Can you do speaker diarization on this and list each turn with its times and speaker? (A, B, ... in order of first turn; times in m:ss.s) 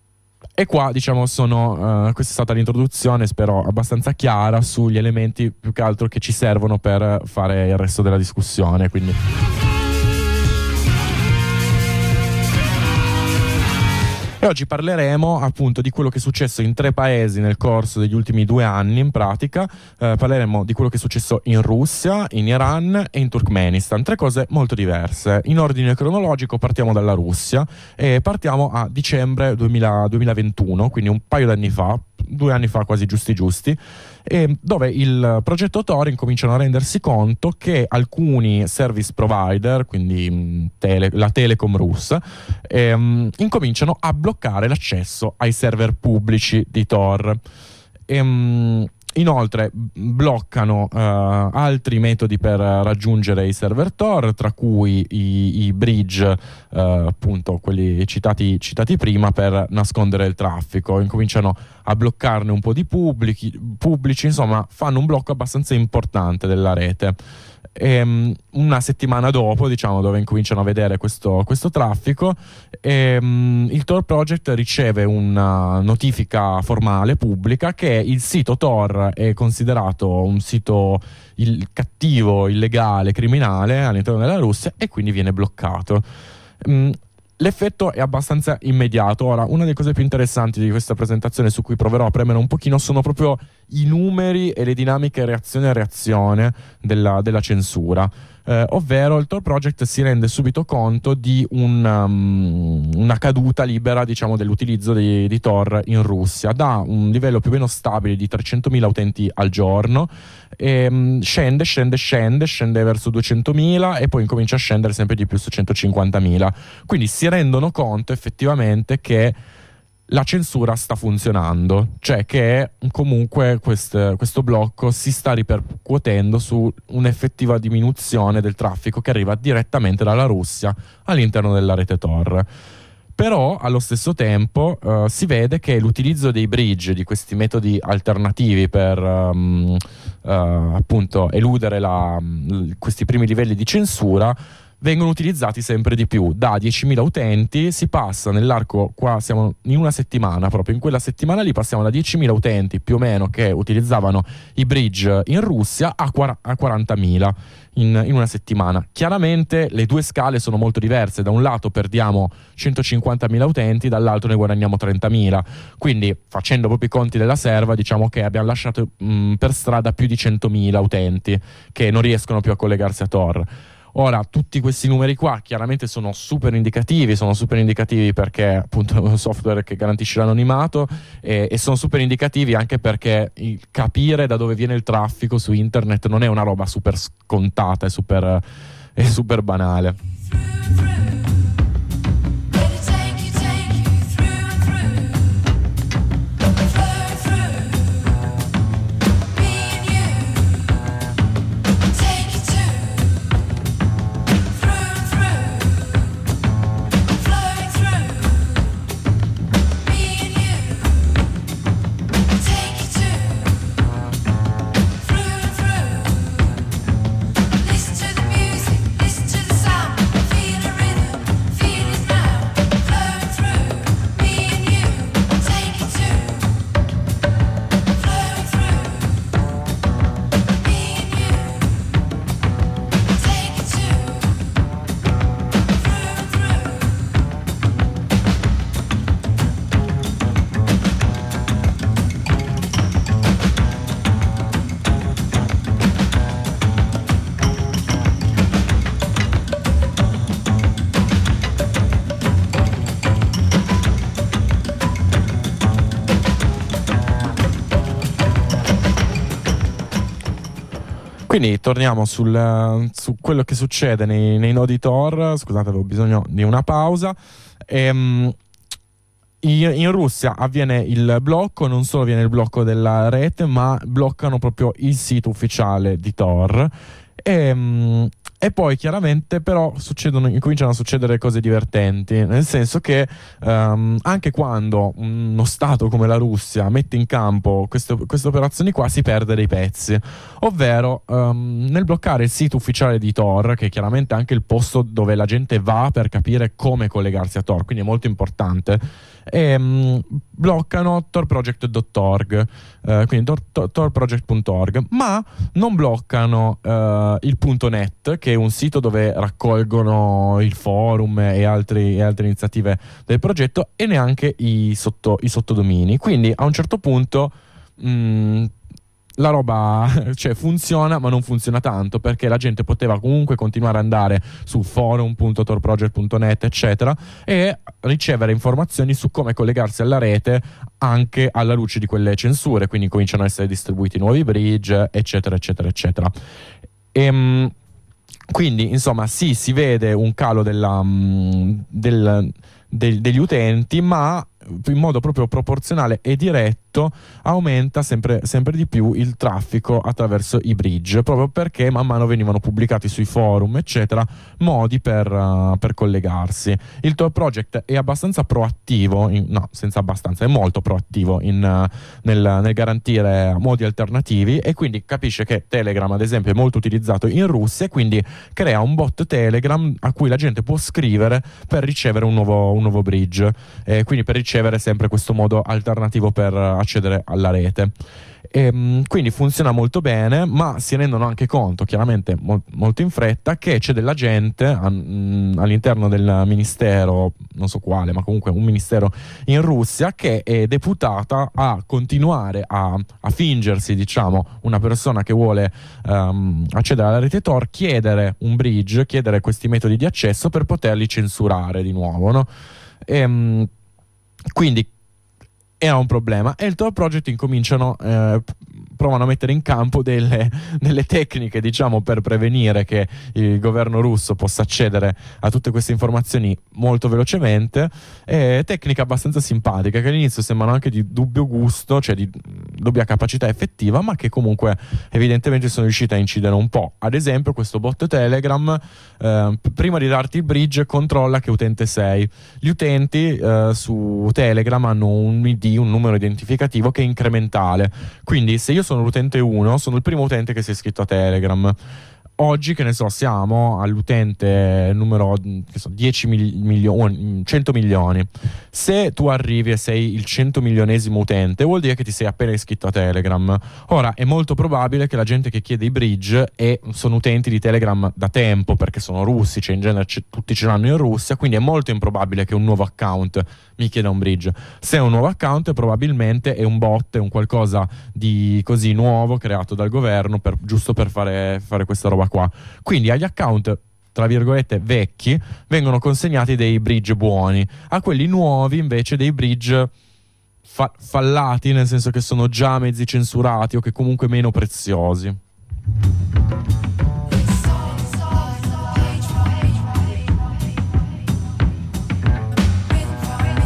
0:00.6-0:09.2 A
0:14.4-0:47.4 A
0:48.1-1:07.2 A
1:07.8-1:26.1 A
1:26.6-1:59.4 A
2:00.1-2:12.5 A
2:13.2-3:08.4 A
3:09.0-3:10.0 A
4:21.3-4:27.2 A
4:27.7-4:28.4 A
4:29.4-5:18.5 A
5:19.2-5:36.1 A
5:36.9-5:37.5 A
5:38.3-6:17.7 A
6:18.3-6:42.3 A
6:42.9-6:43.5 A
6:44.3-6:44.7 A
6:45.6-7:21.6 A
7:22.2-7:59.7 A
8:00.5-8:05.2 A